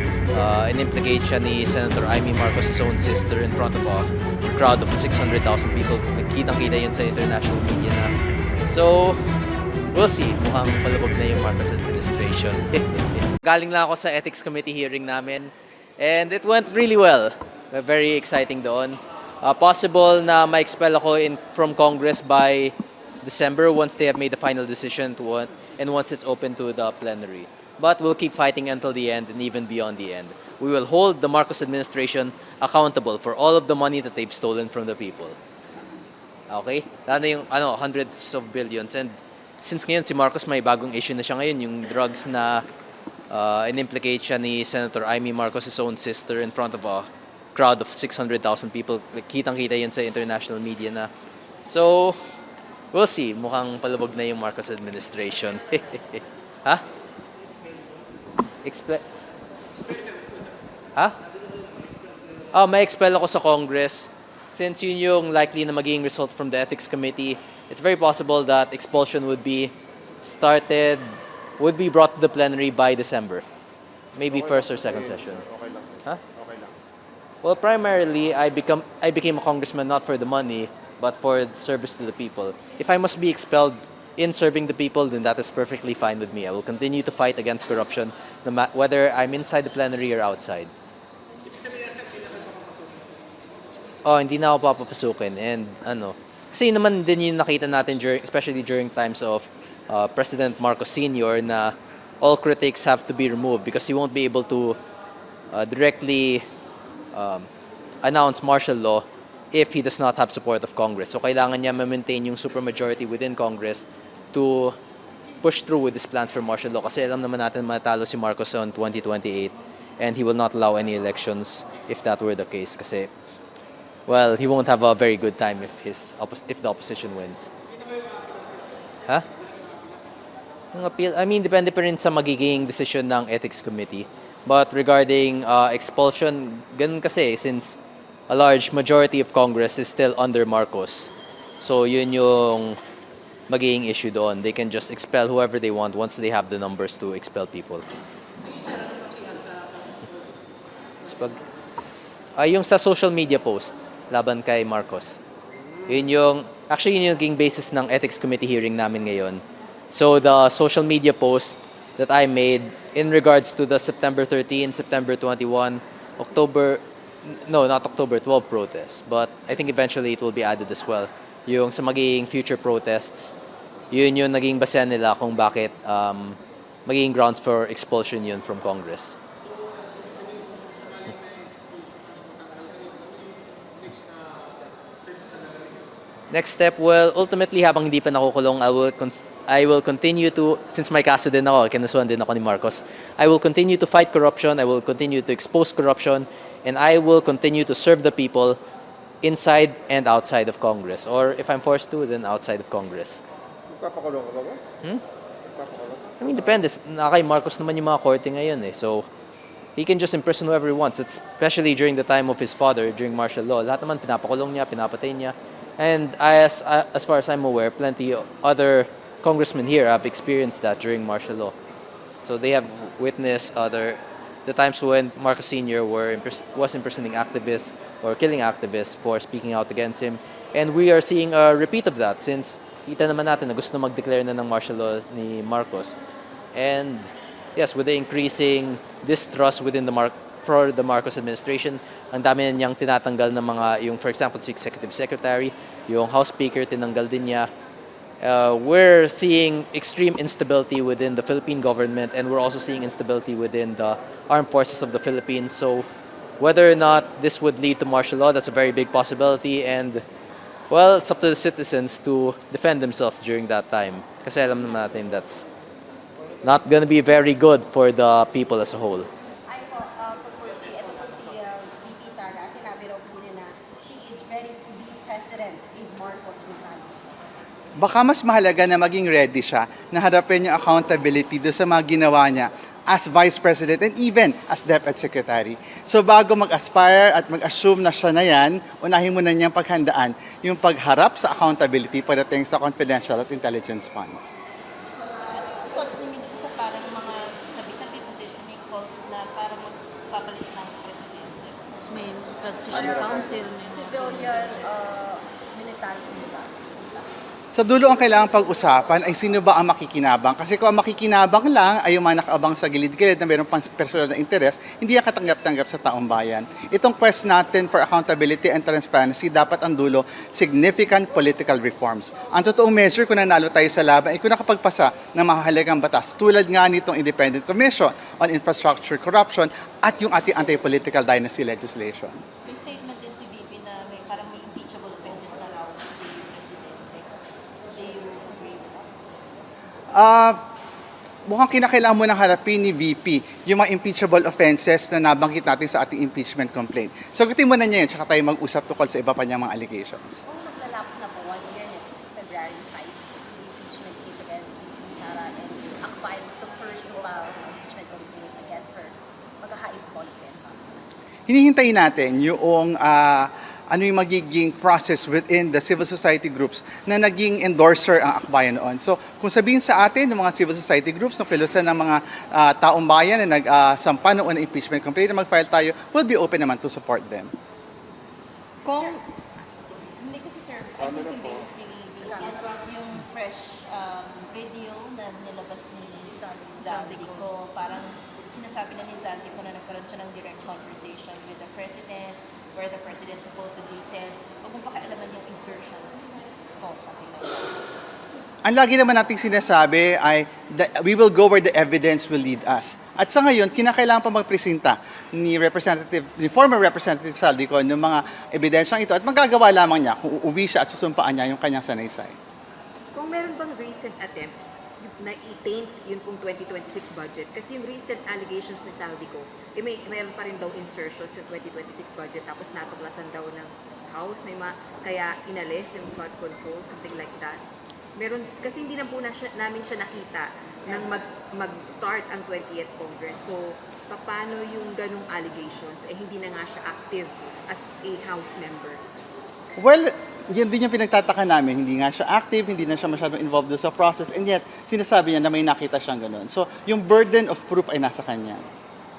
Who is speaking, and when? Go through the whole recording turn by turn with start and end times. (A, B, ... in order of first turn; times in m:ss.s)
0:00.3-0:08.1 A
0:08.7-0:09.2 A
0:09.9-0:35.4 A
0:36.5-0:42.6 A
0:43.3-0:51.1 A
0:51.7-0:52.2 A
0:52.9-0:56.8 A
0:58.6-0:59.0 A
1:02.5-1:11.1 A
1:11.6-1:13.4 A
1:14.2-1:15.4 A
1:14.3-1:16.7 B
1:17.4-1:30.7 A
1:34.0-1:44.8 A
1:45.5-1:46.4 A
1:47.1-1:47.5 A
1:48.0-1:54.8 A
1:55.4-2:03.1 A
2:04.1-2:07.5 A
2:10.7-2:17.8 A
2:18.3-2:22.8 A
2:23.5-2:27.8 A
2:31.0-2:31.4 A
2:32.4-2:35.2 A
2:35.9-2:53.3 A
2:53.9-2:59.2 A
3:06.3-3:18.6 A
3:19.2-3:23.2 A
3:23.7-3:24.6 B
3:26.2-3:29.1 A
3:29.8-3:41.6 A
3:42.2-3:56.0 A
3:56.5-4:07.5 A
4:08.2-4:15.9 A
4:16.4-4:20.0 A
4:20.7-4:25.4 A
4:26.4-4:29.1 A
4:29.5-4:37.1 C
4:37.8-4:54.4 D
4:55.2-5:01.6 E
5:01.8-5:04.3 F
5:02.7-5:07.2 C
5:07.5-5:32.2 D
5:32.4-5:39.0 E
5:39.9-5:40.4 D
5:41.3-5:50.2 D
5:50.3-6:00.8 C
6:01.3-6:17.3 D
6:18.6-6:19.0 E
6:18.7-6:19.0 C
6:19.6-6:37.6 E
6:22.0-6:22.5 C
6:26.1-6:27.0 C
6:38.4-6:52.2 D
6:52.9-7:07.4 G
7:08.0-7:18.8 G
7:19.6-7:28.4 D